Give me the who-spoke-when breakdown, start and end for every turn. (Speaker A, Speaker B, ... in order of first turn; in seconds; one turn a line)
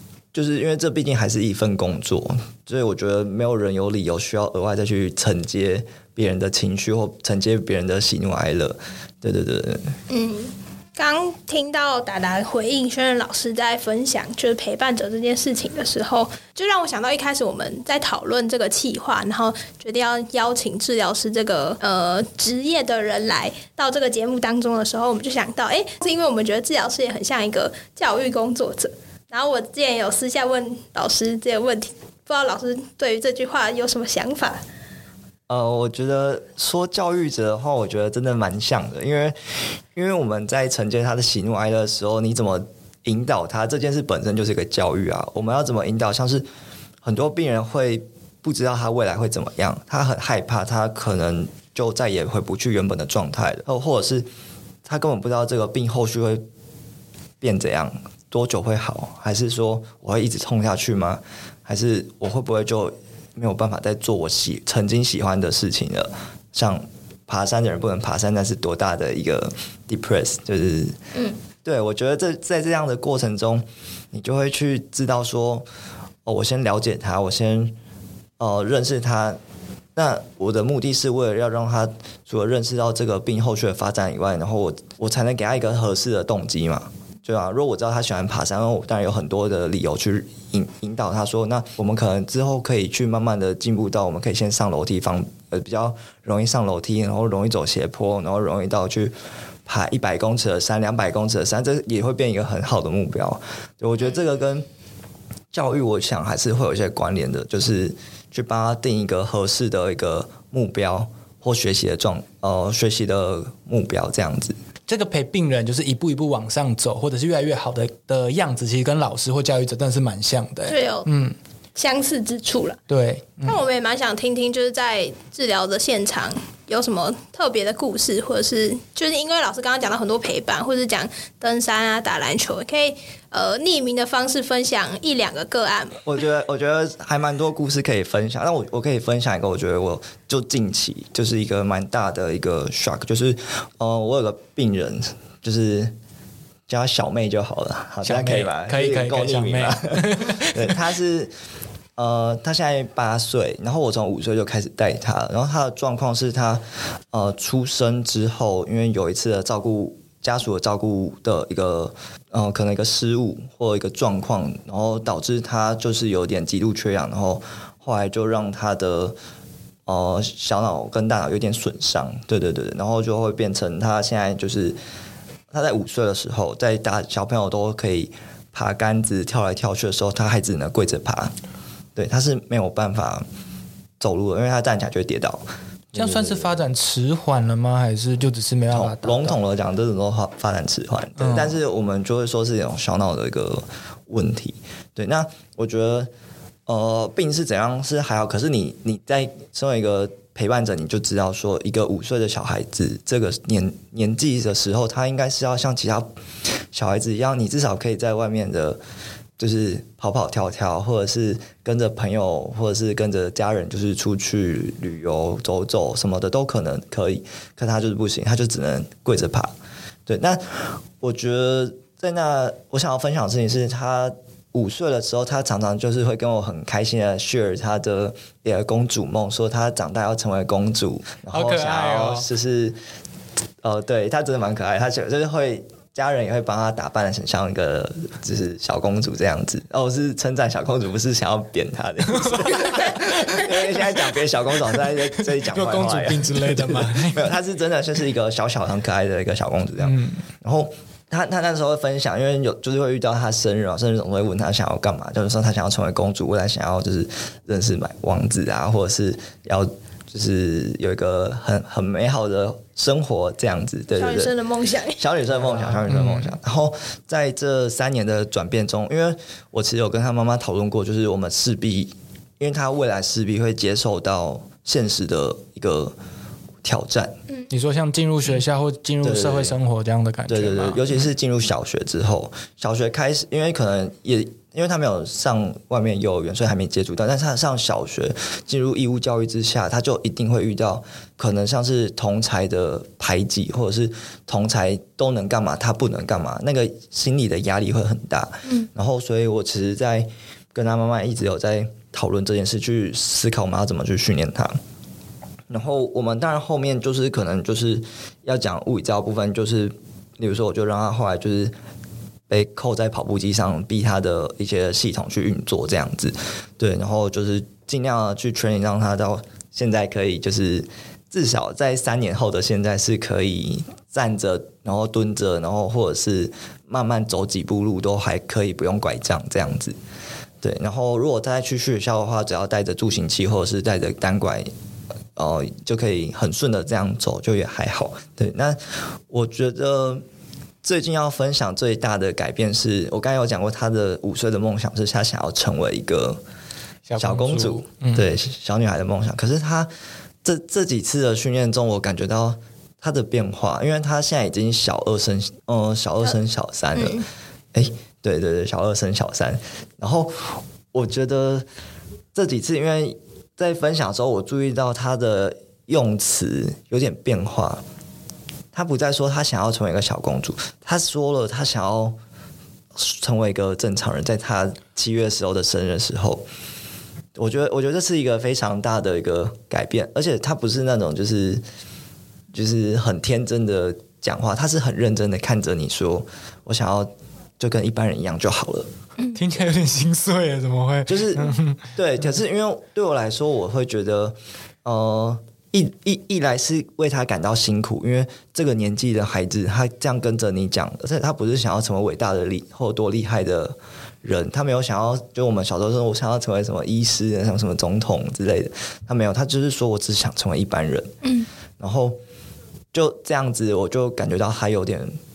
Speaker A: 0.3-9.8
Speaker B: 10.1-34.6
Speaker A: 35.5-39.3
Speaker A: 39.9-46.5
Speaker A: 47.0-54.3
Speaker A: 54.8-56.4
Speaker A: 57.4-71.0
Speaker A: 71.6-75.7
Speaker A: 76.2-77.7
Speaker A: 78.4-79.4
Speaker A: 79.9-99.1
Speaker A: 99.7-104.7
Speaker A: 105.5-114.5
Speaker C: 114.9-121.3
Speaker B: 120.7-121.1
Speaker B: 121.8-122.8
Speaker C: 122.9-123.6
Speaker B: 123.4-136.0
Speaker A: 136.0-145.9
Speaker A: 146.7-151.3
Speaker C: 148.0-150.8
Speaker A: 152.0-169.2
Speaker A: 169.8-174.8
Speaker A: 175.5-181.3
Speaker A: 181.9-183.2
Speaker A: 184.0-186.5
Speaker C: 185.9-189.4
Speaker A: 188.7-196.1
Speaker C: 191.2-191.5
Speaker A: 196.7-206.1
Speaker A: 206.7-208.8
Speaker A: 209.4-219.5
Speaker A: 220.1-232.8
Speaker C: 231.3-232.3
Speaker A: 233.6-264.3
Speaker C: 242.1-244.0
Speaker C: 244.9-247.3
Speaker C: 249.8-250.2
Speaker B: 263.9-265.0
Speaker A: 265.0-275.9
Speaker C: 265.9-266.3
Speaker A: 276.6-277.1
Speaker C: 277.5-280.8
Speaker A: 279.0-279.6
Speaker A: 280.3-304.6
Speaker A: 305.5-311.5
Speaker A: 312.3-329.8
Speaker A: 330.4-334.5
Speaker A: 335.1-340.0
Speaker A: 340.6-346.2
Speaker C: 346.9-348.1
Speaker A: 347.0-349.7
Speaker A: 350.2-357.0
Speaker B: 356.8-357.0
Speaker A: 357.5-361.4
Speaker A: 362.1-367.6
Speaker A: 368.5-371.9
Speaker A: 372.7-376.2
Speaker A: 377.1-381.4
Speaker A: 382.3-388.7
Speaker C: 389.1-391.6
Speaker A: 390.9-410.9
Speaker B: 411.0-411.3
Speaker A: 411.6-412.0
Speaker A: 412.7-414.9